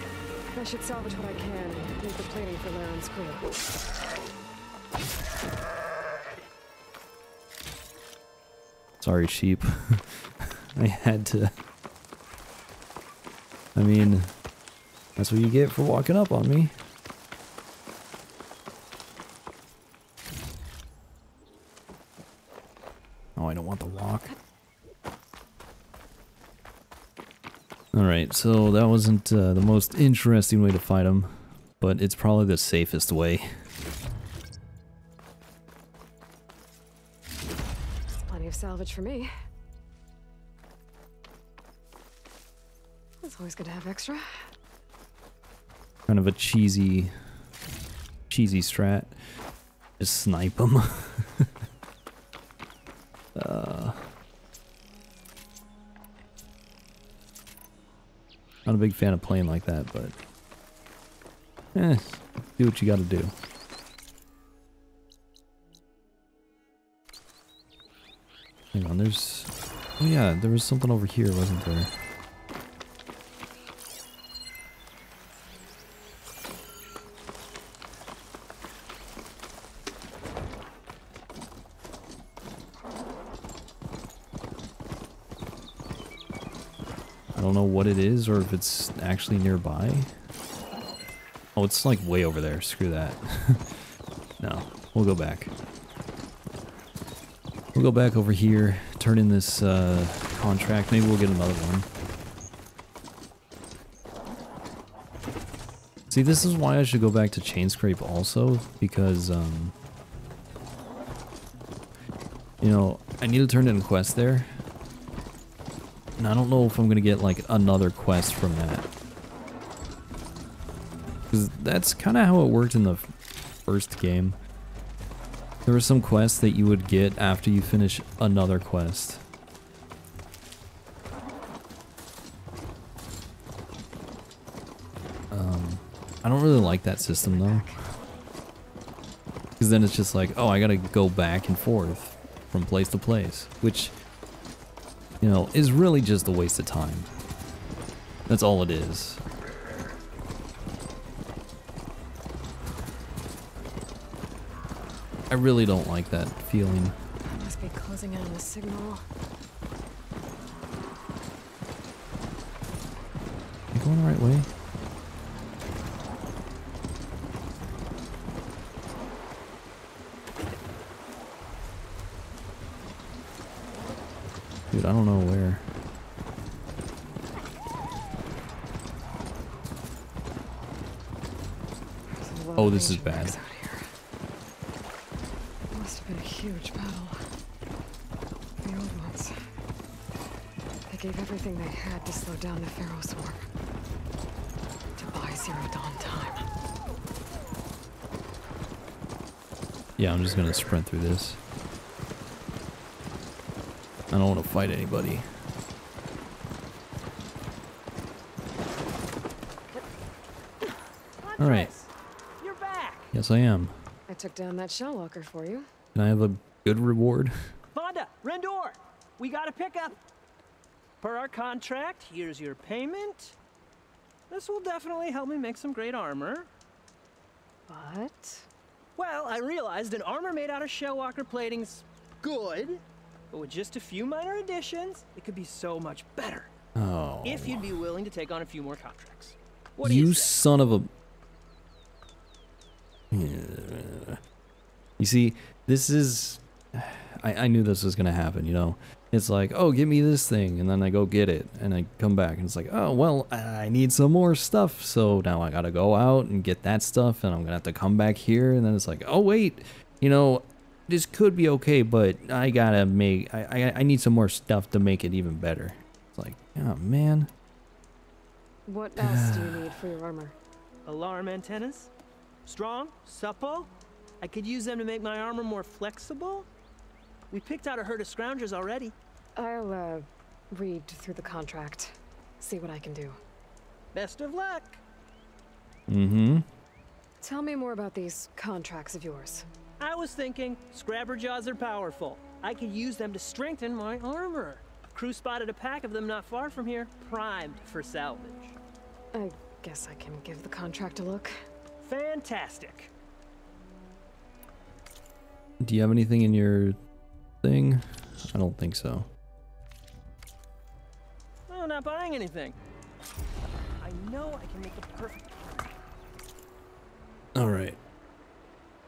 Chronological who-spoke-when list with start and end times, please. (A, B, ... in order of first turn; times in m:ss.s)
0:00.5-0:03.5 A
0:09.0-0:11.5 B
0:13.8-0:14.3 B
0:15.2-0:16.7 B
0:23.4-0:24.3 B
0:27.9-0:33.5 B
0:38.3-0:39.3 A
0:43.2-0:44.5 A
0:46.1-0:47.1 B
0:48.3-0:49.2 B
0:50.0-0:51.5 B
0:53.4-0:54.1 B
0:58.7-1:00.2 B
1:01.8-1:03.4 B
1:08.7-1:12.0 B
1:27.4-1:30.1 B
1:31.6-1:33.8 B
1:34.4-1:35.5 B
1:37.8-1:41.9 B
1:46.1-1:49.8 B
1:52.6-1:54.5 B
1:56.2-1:58.9 B
2:01.3-2:03.1 B
2:03.7-2:04.4 B
2:05.7-2:09.2 B
2:15.3-2:17.7 B
2:16.5-2:17.8 A
2:19.6-2:23.9 B
2:25.2-2:27.1 B
2:28.3-2:29.2 B
2:35.3-2:37.0 B
2:37.3-2:39.0 A
2:43.7-2:44.5 B
2:54.7-2:55.6 B
3:02.1-3:03.9 A
3:02.6-3:03.4 B
3:05.7-3:07.2 A
3:08.6-3:09.3 A
3:10.9-3:13.5 A
3:15.0-3:16.5 A
3:20.0-3:21.4 B
3:24.1-3:25.2 B
3:31.2-3:33.1 C
3:31.4-3:31.7 B
3:33.1-3:33.8 B
3:34.1-3:35.7 A
3:36.0-3:37.4 B
3:37.7-3:40.0 C
3:41.0-3:43.4 C
3:44.3-3:46.5 C
3:47.7-3:48.5 A
3:49.0-3:52.8 C
3:53.3-3:56.5 C
3:56.8-3:57.8 B
3:57.2-4:00.4 C
3:59.8-4:00.9 B
4:03.1-4:04.2 B
4:05.0-4:27.3 B
4:28.7-4:30.4 A
4:29.0-4:29.7 B
4:30.8-4:31.9 C
4:32.5-4:33.7 C
4:34.2-4:36.5 C
4:37.3-4:38.9 C
4:39.4-4:43.2 A
4:43.9-4:44.8 C
4:45.9-4:46.4 B
4:47.2-4:49.5 A
4:49.8-4:58.6 C
4:59.1-5:01.3 A
5:01.8-5:02.9 C
5:05.6-5:06.8 B
5:07.4-5:09.1 B
5:11.5-5:12.6 C
5:13.8-5:15.7 C
5:17.4-5:17.8 B